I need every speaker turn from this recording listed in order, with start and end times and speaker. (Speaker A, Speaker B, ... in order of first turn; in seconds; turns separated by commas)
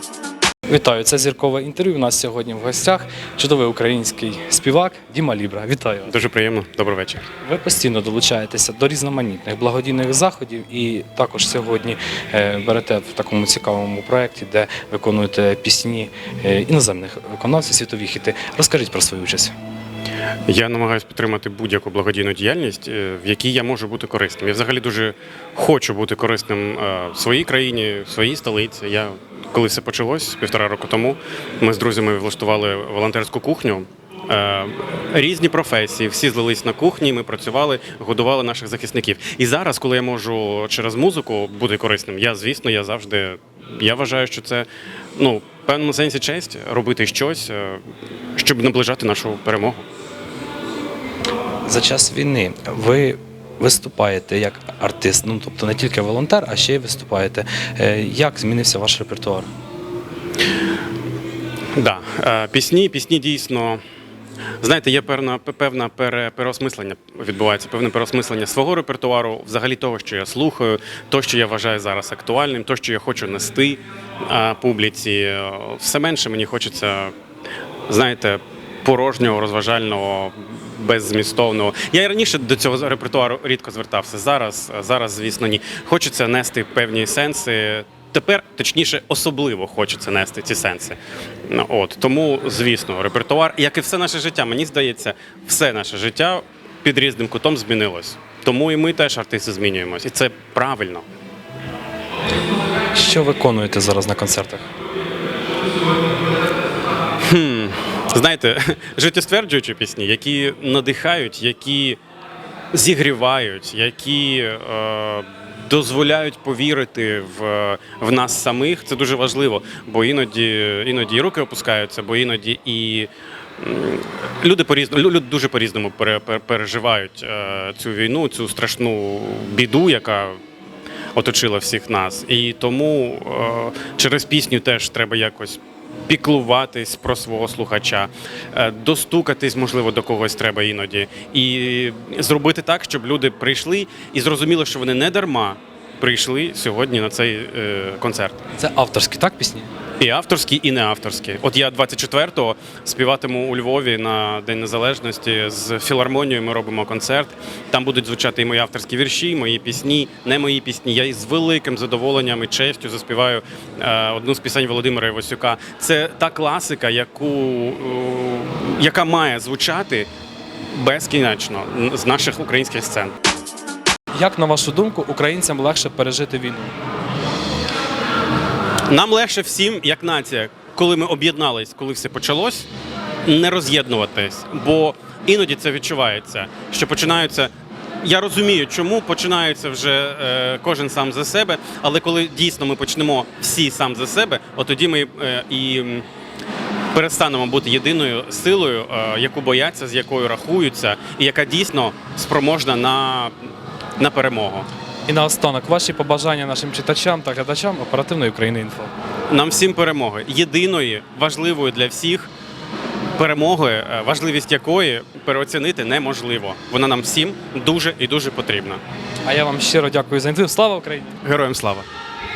Speaker A: 0.7-6.1, Speaker B: 6.1-7.2, Speaker A: 7.4-19.5, Speaker B: 20.5-47.8, Speaker B: 48.4-49.9, Speaker A: 51.7-59.5, Speaker B: 61.8-63.8, Speaker B: 64.6-77.1, Speaker B: 77.9-101.1, Speaker A: 102.9-104.7, Speaker B: 107.2-112.0, Speaker B: 112.7-130.4, Speaker B: 131.2-148.5, Speaker A: 148.6-149.7, Speaker B: 150.0-170.1, Speaker B: 170.7-173.1, Speaker A: 174.2-176.7, Speaker B: 178.9-182.7, Speaker B: 183.2-196.1, Speaker B: 196.9-203.4, Speaker B: 204.0-204.7, Speaker A: 205.1-208.9, Speaker B: 209.3-212.3, Speaker B: 213.2-218.8, Speaker A: 219.2-221.2, Speaker B: 221.2-221.9